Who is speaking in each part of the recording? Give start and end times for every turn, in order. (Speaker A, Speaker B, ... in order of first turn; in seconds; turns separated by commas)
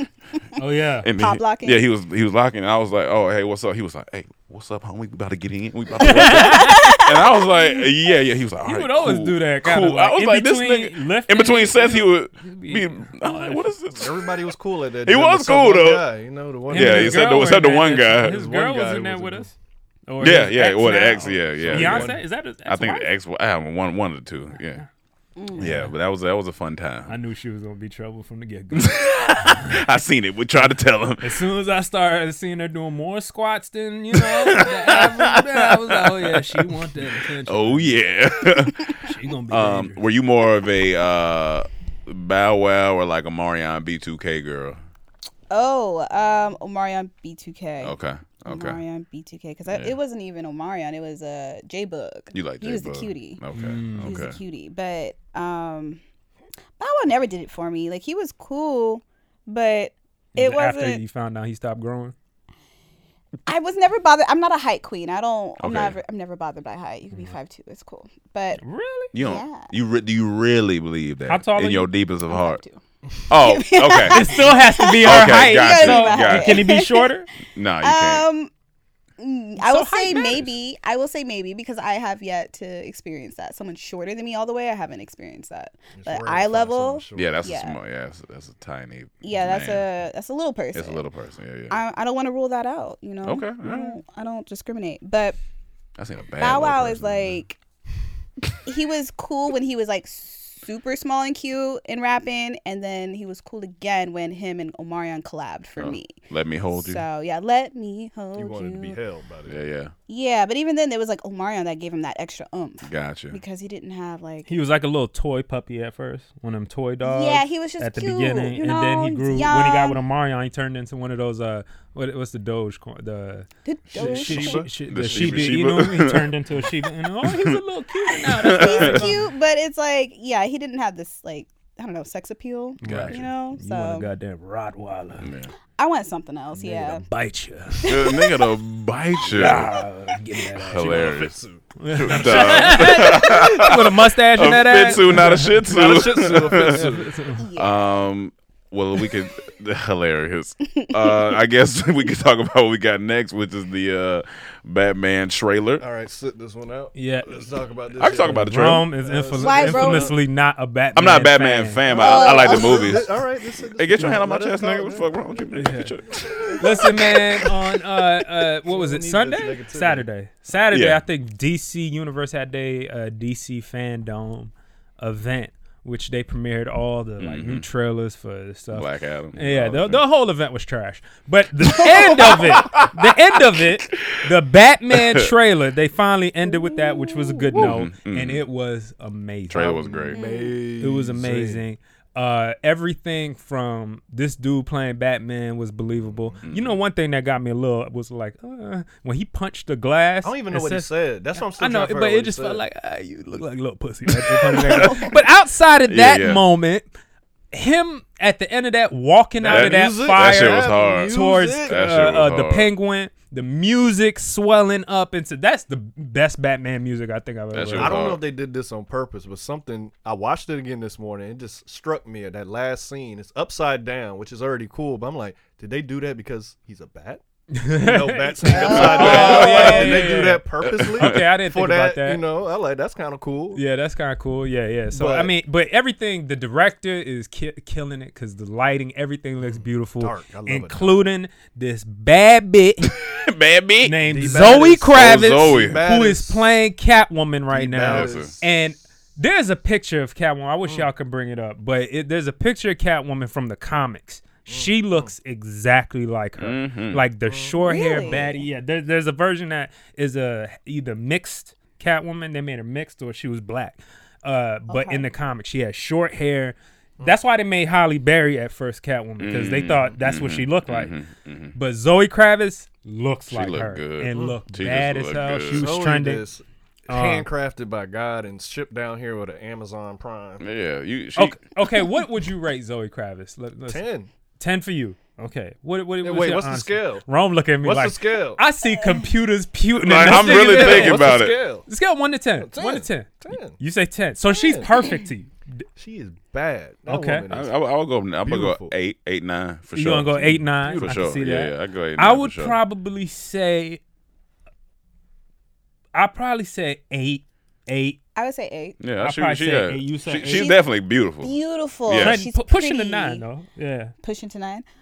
Speaker A: 0.6-1.1, Speaker B: 1.0-14.3, Speaker C: 1.2-1.9, Speaker A: 6.0-7.0, Speaker C: 6.3-7.8, Speaker A: 8.6-13.7, Speaker D: 13.9-17.5, Speaker B: 15.0-16.0, Speaker B: 16.7-18.4, Speaker A: 16.7-19.5, Speaker D: 18.3-19.5, Speaker A: 20.1-23.1, Speaker B: 20.2-24.8, Speaker D: 21.2-22.2, Speaker C: 25.4-25.7, Speaker A: 25.6-25.9, Speaker B: 25.6-27.1, Speaker A: 27.1-29.9, Speaker B: 28.7-31.2, Speaker A: 31.2-37.9, Speaker B: 34.1-36.7, Speaker B: 37.5-44.8, Speaker A: 39.0-40.0, Speaker C: 45.5-47.9, Speaker B: 47.8-48.8, Speaker C: 48.5-53.4, Speaker B: 49.7-49.9, Speaker B: 52.3-54.4, Speaker A: 53.5-54.2, Speaker C: 54.0-56.0, Speaker C: 56.8-61.0, Speaker A: 60.3-62.1, Speaker C: 63.5-68.6, Speaker B: 65.6-66.0, Speaker A: 68.6-69.1, Speaker B: 69.1-72.6, Speaker C: 69.2-69.7, Speaker A: 71.3-71.9, Speaker C: 72.3-77.1, Speaker B: 73.3-74.2, Speaker A: 74.1-77.3, Speaker B: 75.0-76.7, Speaker B: 77.5-78.2, Speaker C: 77.8-78.5, Speaker C: 79.2-87.8, Speaker A: 79.6-80.5, Speaker D: 86.0-87.3, Speaker B: 87.1-89.8, Speaker C: 89.2-91.0, Speaker B: 90.7-91.8, Speaker C: 91.7-95.4, Speaker B: 93.2-94.0, Speaker B: 96.0-97.4, Speaker C: 96.4-97.6, Speaker C: 98.6-106.2, Speaker B: 105.8-107.0, Speaker C: 106.7-109.0, Speaker D: 108.3-109.7, Speaker B: 109.5-109.9, Speaker C: 110.1-114.5, Speaker B: 112.8-113.4, Speaker A: 114.5-129.2, Speaker C: 117.0-120.0, Speaker C: 123.7-124.7, Speaker D: 123.9-125.6, Speaker B: 124.9-126.3, Speaker B: 127.2-127.6, Speaker B: 128.3-129.1, Speaker C: 128.4-134.1, Speaker A: 132.8-135.3, Speaker B: 132.8-133.2, Speaker B: 135.2-135.5, Speaker C: 135.8-137.0, Speaker A: 136.6-138.0, Speaker B: 137.8-139.7, Speaker A: 139.3-141.1, Speaker D: 140.7-143.1, Speaker B: 140.7-141.4, Speaker A: 141.8-145.7, Speaker B: 141.9-146.8, Speaker D: 145.6-147.1, Speaker A: 146.5-147.4, Speaker C: 147.4-147.9, Speaker B: 147.6-155.8, Speaker D: 155.8-160.1, Speaker A: 156.9-157.5, Speaker B: 158.0-158.8, Speaker A: 158.0-162.4, Speaker C: 159.4-160.1, Speaker B: 160.9-163.1, Speaker D: 161.9-165.1, Speaker C: 162.0-163.0, Speaker B: 163.8-167.1, Speaker A: 165.5-165.9, Speaker A: 166.6-189.8, Speaker D: 168.7-170.1, Speaker B: 170.7-171.0, Speaker B: 177.2-177.7, Speaker B: 178.7-180.0, Speaker B: 181.7-184.0, Speaker B: 184.9-185.3, Speaker C: 186.6-187.5, Speaker B: 187.5-188.4, Speaker B: 189.5-190.2, Speaker D: 189.6-191.6, Speaker C: 190.1-190.6, Speaker A: 190.8-206.9, Speaker B: 196.4-196.8, Speaker D: 200.2-202.6, Speaker D: 204.5-204.9, Speaker B: 205.9-206.4, Speaker A: 207.5-218.0, Speaker D: 209.4-211.9, Speaker B: 209.5-212.7, Speaker B: 217.5-218.2, Speaker D: 217.7-227.2, Speaker A: 227.5-232.2, Speaker D: 227.7-233.6, Speaker C: 228.4-229.7, Speaker B: 228.8-231.2, Speaker A: 233.5-242.9, Speaker D: 234.9-235.3, Speaker D: 239.4-241.0, Speaker B: 243.1-245.8, Speaker A: 243.8-270.9, Speaker D: 244.0-246.5, Speaker D: 247.5-248.4, Speaker B: 247.8-248.3, Speaker D: 254.5-255.1, Speaker B: 256.4-257.0, Speaker D: 257.3-258.3, Speaker C: 257.6-258.4, Speaker C: 264.7-265.1, Speaker B: 269.2-271.5, Speaker A: 271.5-276.2, Speaker B: 273.3-275.7, Speaker D: 274.1-274.4, Speaker D: 275.5-280.4, Speaker A: 276.9-277.2, Speaker B: 280.4-281.4, Speaker A: 281.1-283.8, Speaker D: 283.7-284.1, Speaker A: 284.4-295.6, Speaker D: 286.0-287.0, Speaker D: 287.6-288.4, Speaker C: 288.8-289.1, Speaker B: 289.8-291.4, Speaker D: 289.8-291.6, Speaker D: 292.4-293.6, Speaker D: 294.3-294.7, Speaker C: 294.6-295.0, Speaker D: 295.8-297.5, Speaker A: 296.9-297.2, Speaker B: 297.3-302.6, Speaker D: 298.2-298.7, Speaker A: 299.7-303.8, Speaker D: 300.6-301.0, Speaker A: 305.9-308.0, Speaker C: 308.1-308.8, Speaker B: 308.8-312.2, Speaker A: 309.0-310.5, Speaker C: 310.2-310.6, Speaker C: 311.2-313.2, Speaker A: 312.0-313.9, Speaker C: 314.0-314.6